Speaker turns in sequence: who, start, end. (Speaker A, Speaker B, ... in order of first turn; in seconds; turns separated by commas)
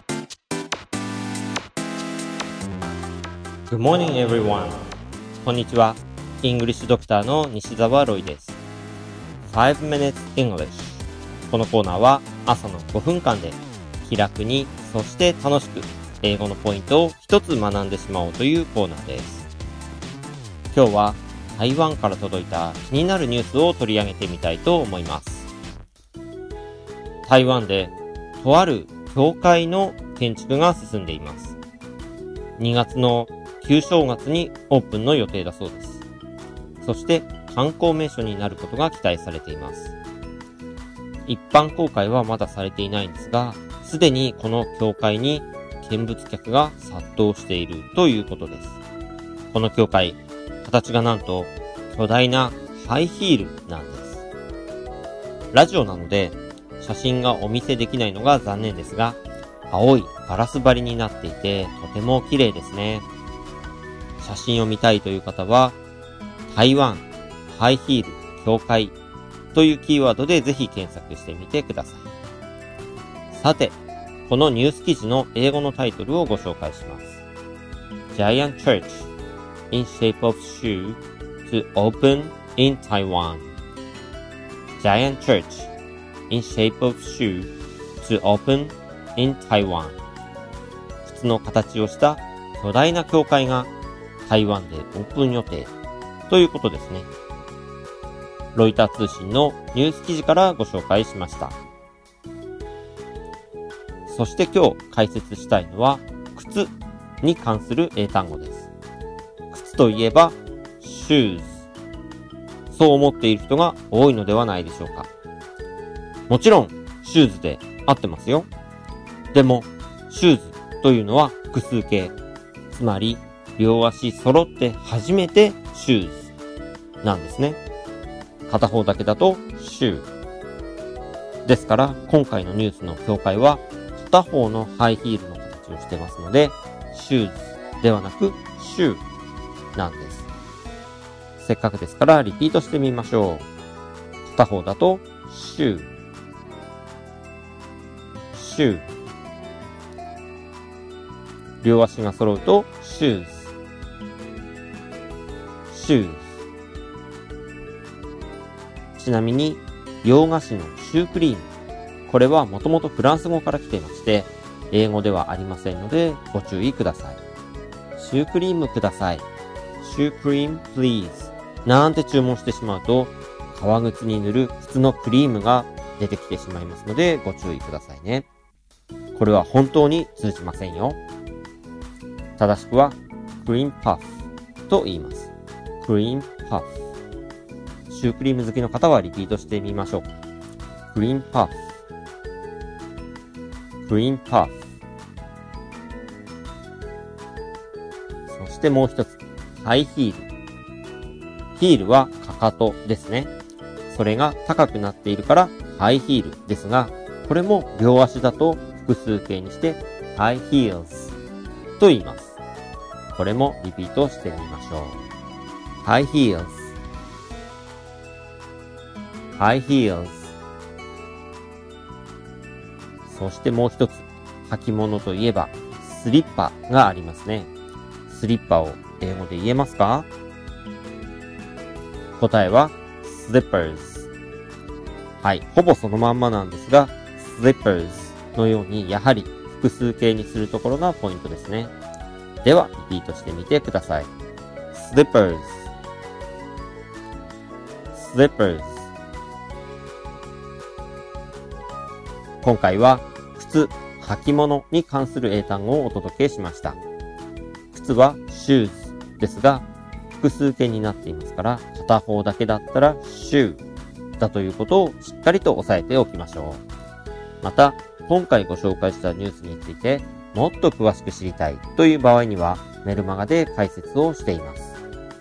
Speaker A: 3.7-4.8, Speaker A: 5.4-8.6, Speaker A: 9.4-19.5, Speaker A: 20.7-25.5, Speaker A: 27.2-31.6, Speaker A: 32.6-36.0, Speaker A: 36.8-39.9, Speaker A: 41.2-48.8, Speaker A: 49.5-54.2, Speaker A: 55.5-59.2, Speaker A: 59.7-63.0, Speaker A: 64.2-65.8, Speaker A: 66.5-69.0, Speaker A: 69.5-72.0, Speaker A: 73.3-77.2, Speaker A: 78.1-79.1, Speaker A: 79.7-83.5, Speaker A: 84.8-85.7, Speaker A: 86.3-90.0, Speaker A: 91.0-93.7, Speaker A: 94.2-95.7, Speaker A: 96.3-97.1, Speaker A: 98.5-101.5, Speaker A: 104.1-108.7, Speaker A: 109.5-111.7, Speaker A: 112.7-115.1, Speaker A: 116.3-118.5, Speaker A: 119.3-122.2, Speaker A: 122.7-126.3, Speaker A: 127.0-127.6, Speaker A: 128.5-130.1, Speaker A: 131.4-139.0, Speaker A: 139.7-140.3, Speaker A: 141.4-143.5, Speaker A: 144.3-145.9, Speaker A: 148.3-148.9, Speaker A: 151.6-153.5, Speaker A: 155.7-156.3, Speaker A: 158.9-161.5, Speaker A: 162.1-167.2, Speaker A: 167.9-169.2, Speaker A: 169.8-178.3, Speaker A: 179.1-181.0, Speaker A: 182.4-184.1, Speaker A: 184.7-186.8, Speaker A: 187.9-190.2, Speaker A: 190.9-191.6, Speaker A: 193.8-194.6, Speaker A: 198.3-200.3, Speaker A: 201.5-203.3, Speaker A: 203.9-211.1, Speaker A: 211.8-212.4, Speaker A: 213.1-215.0, Speaker A: 215.8-216.7, Speaker A: 219.3-220.3, Speaker A: 223.1-227.5, Speaker A: 228.1-230.1, Speaker A: 232.2-234.1, Speaker A: 235.2-241.7, Speaker A: 242.4-244.1, Speaker A: 244.7-245.7, Speaker A: 247.9-248.9, Speaker A: 252.4-256.8, Speaker A: 257.7-259.6, Speaker A: 260.2-263.6, Speaker A: 264.2-266.6, Speaker A: 267.4-274.8